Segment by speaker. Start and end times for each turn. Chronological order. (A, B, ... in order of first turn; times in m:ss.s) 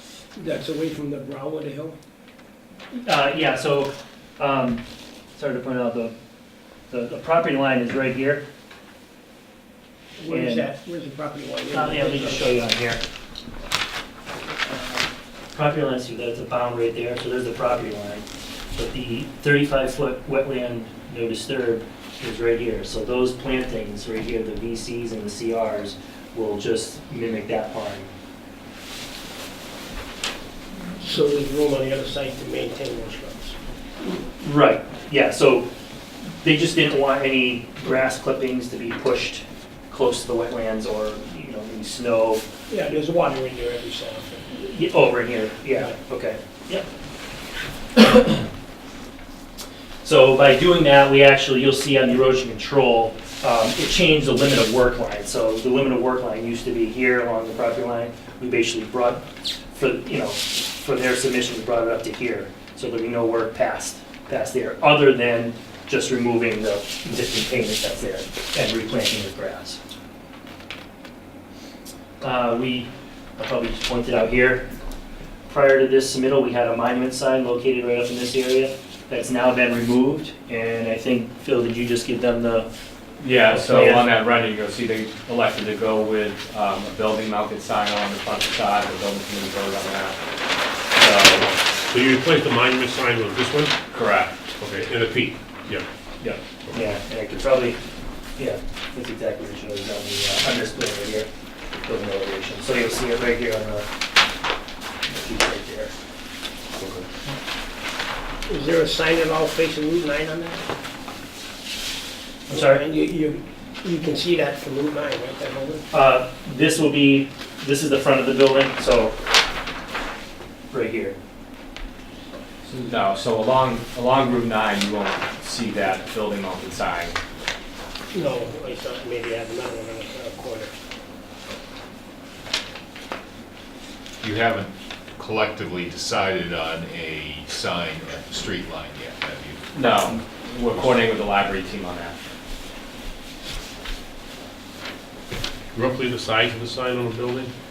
0:00.4-0:02.0 A
0:03.0-0:04.8 B
0:05.3-0:06.1 B
0:06.9-0:08.4 B
0:10.2-0:12.6 A
0:10.3-0:10.7 B
0:11.7-0:13.0 B
0:14.7-0:28.1 B
0:31.0-0:33.6 A
0:34.4-0:35.7 B
0:36.4-0:42.4 B
0:42.7-0:44.4 A
0:44.5-0:46.8 B
0:48.0-0:48.4 B
0:50.0-1:09.8 B
1:12.2-1:14.7 B
1:15.5-1:22.7 B
1:23.2-1:30.2 C
1:23.3-1:24.1 B
1:30.9-1:31.5 C
1:31.9-1:33.7 D
1:33.9-1:34.4 C
1:34.6-1:35.8 D
1:36.7-1:37.8 B
1:38.4-1:41.3 B
1:41.8-1:43.9 B
1:45.1-1:45.9 B
1:46.8-1:47.0 D
1:48.5-1:50.6 A
1:52.5-1:52.8 B
1:52.5-1:55.8 A
1:55.9-1:59.1 B
2:00.7-2:01.2 B
2:02.6-2:07.2 C
2:08.1-2:10.7 A
2:14.2-2:19.6 E
2:19.7-2:22.2 C
2:25.7-2:27.5 D